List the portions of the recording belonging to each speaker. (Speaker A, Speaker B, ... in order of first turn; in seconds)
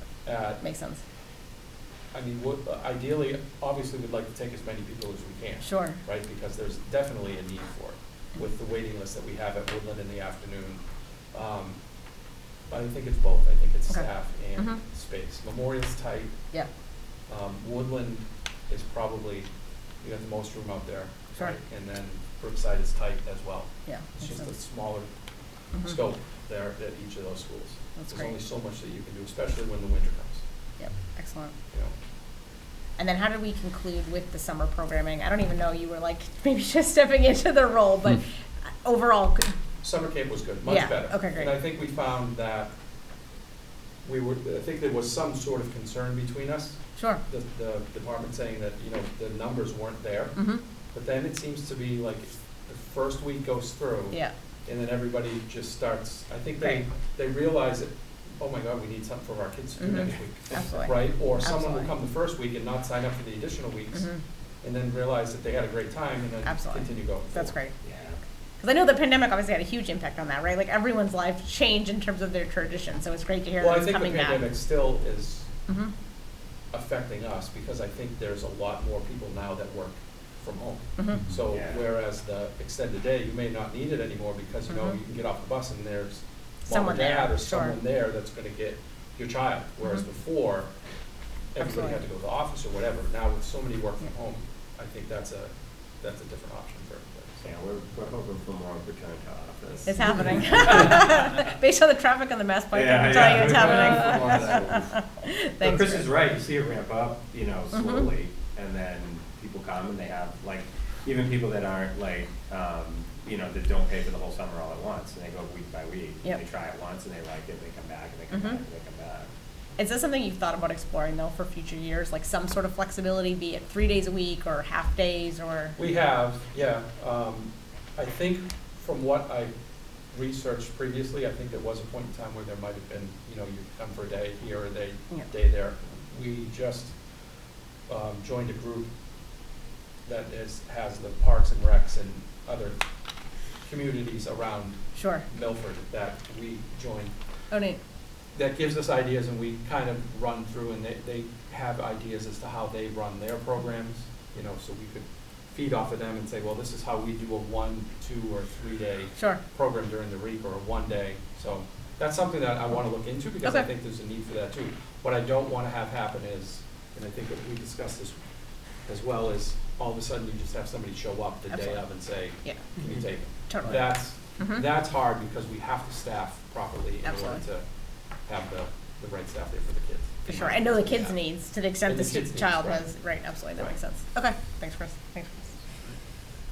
Speaker A: 0.2-0.6, 2.1-11.8, 12.7-16.4, 17.3-19.5, 20.0-25.1, 25.8-30.4, 39.8-42.7, 44.0-50.4, 50.9-64.1, 64.6-67.5, 73.6-75.5, 76.7-90.7, 91.5-97.4, 100.6-101.1, 103.0-104.7, 125.8-129.5, 130.1-137.0, 137.9-138.9, 140.0-142.8, 143.6-147.1, 148.3-168.2, 168.8-177.7, 178.2-181.2, 181.8-182.8
Speaker B: 0.6-1.0, 5.6-6.0, 13.9-14.8, 23.9-24.5, 28.0-28.3, 30.8-31.5, 33.0-39.5, 40.6-41.5, 47.0-47.2, 50.4-50.6, 59.8-61.9, 63.9-64.2, 66.4-67.7, 68.6-74.4, 75.7-75.9, 81.0-81.2, 84.7-85.0, 86.7-87.8, 91.6-92.0, 99.8-106.1, 107.7-108.1, 118.3-118.6, 119.8-125.8, 144.9-145.2, 147.5-147.8, 171.5-174.7, 177.0-177.4, 180.3-185.5
Speaker C: 67.8-68.2, 81.5-81.8, 97.4-100.9, 102.7-104.9, 105.6-119.3